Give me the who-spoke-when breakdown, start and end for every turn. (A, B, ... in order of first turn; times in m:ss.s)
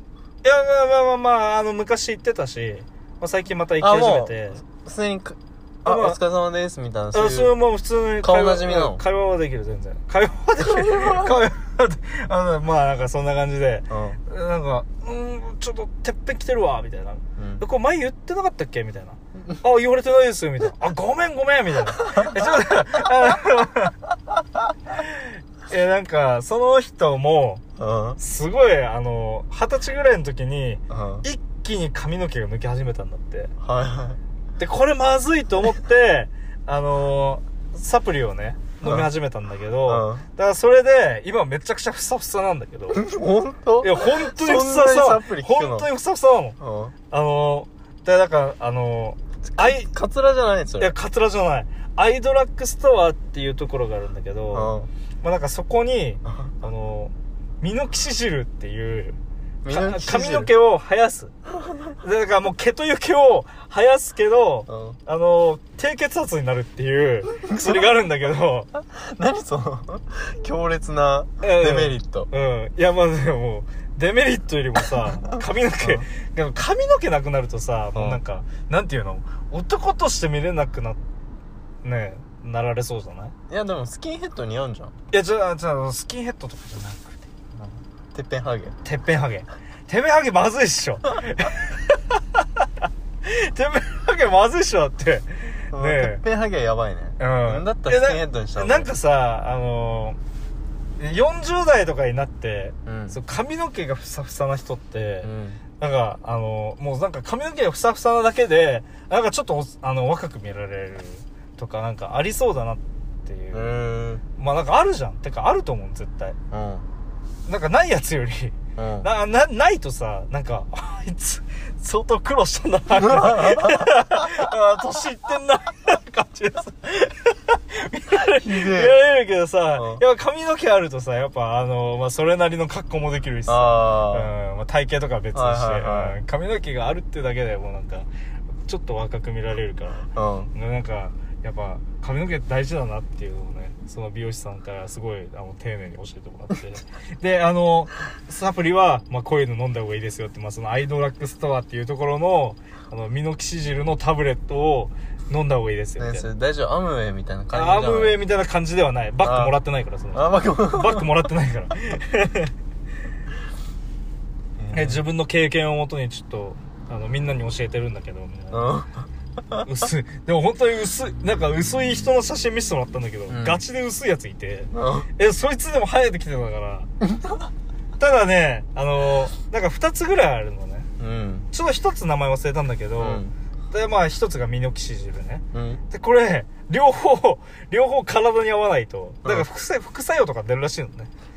0:00.4-0:04.6 A
0:03.8-0:07.6 B
0:05.8-0:06.2 A
0:07.1-0:24.0 A
0:08.2-0:09.0 B
0:10.6-0:11.3 B
0:13.9-0:14.2 B
0:17.4-0:17.6 B
0:22.1-0:22.3 B
0:24.9-0:27.6 A
0:27.8-0:28.2 B
0:28.2-0:33.5 A
0:30.9-0:31.2 B
0:33.6-0:34.2 B
0:34.6-0:43.0 A
0:38.8-0:39.1 B
0:39.8-0:40.2 B
0:42.9-0:45.9 B
0:43.8-0:46.6 A
0:46.6-0:46.9 B
0:47.1-0:49.9 A
0:49.5-0:50.9 B
0:50.8-1:01.3 A
0:54.5-0:54.9 B
0:56.3-0:56.5 B
0:59.6-1:00.5 B
1:02.0-1:08.7 A
1:04.7-1:05.0 B
1:07.3-1:08.0 B
1:08.8-1:12.3 B
1:11.4-1:21.0 A
1:15.0-1:16.1 B
1:17.9-1:18.2 B
1:21.8-1:23.3 A
1:23.5-1:24.9 B
1:25.1-1:27.2 A
1:27.6-1:28.8 B
1:28.8-1:32.6 A
1:33.2-1:36.2 A
1:35.7-1:38.9 B
1:37.2-1:40.2 A
1:41.0-1:53.8 A
1:42.8-1:43.2 B
1:45.2-1:45.6 B
1:53.5-1:54.2 B
1:54.4-1:56.4 A
1:56.5-1:56.8 B
1:57.5-2:18.1 A
1:58.8-1:59.1 B
2:03.0-2:03.9 B
2:08.3-2:09.0 B
2:09.8-2:10.0 B
2:13.5-2:14.3 B
2:15.3-2:16.2 B
2:18.6-2:36.3 A
2:20.1-2:20.5 B
2:36.0-2:38.1 B
2:37.5-2:42.5 A
2:39.2-2:39.6 B
2:40.1-2:41.1 B
2:44.6-2:45.0 B
2:44.7-2:48.8 A
2:48.5-2:48.9 B
2:49.6-2:56.9 A
2:53.3-2:53.6 B
2:54.7-2:55.1 B
2:57.0-2:57.5 B
2:58.0-3:00.9 A
3:01.0-3:01.5 B
3:01.5-3:11.1 A
3:03.0-3:03.3 B
3:05.5-3:05.8 B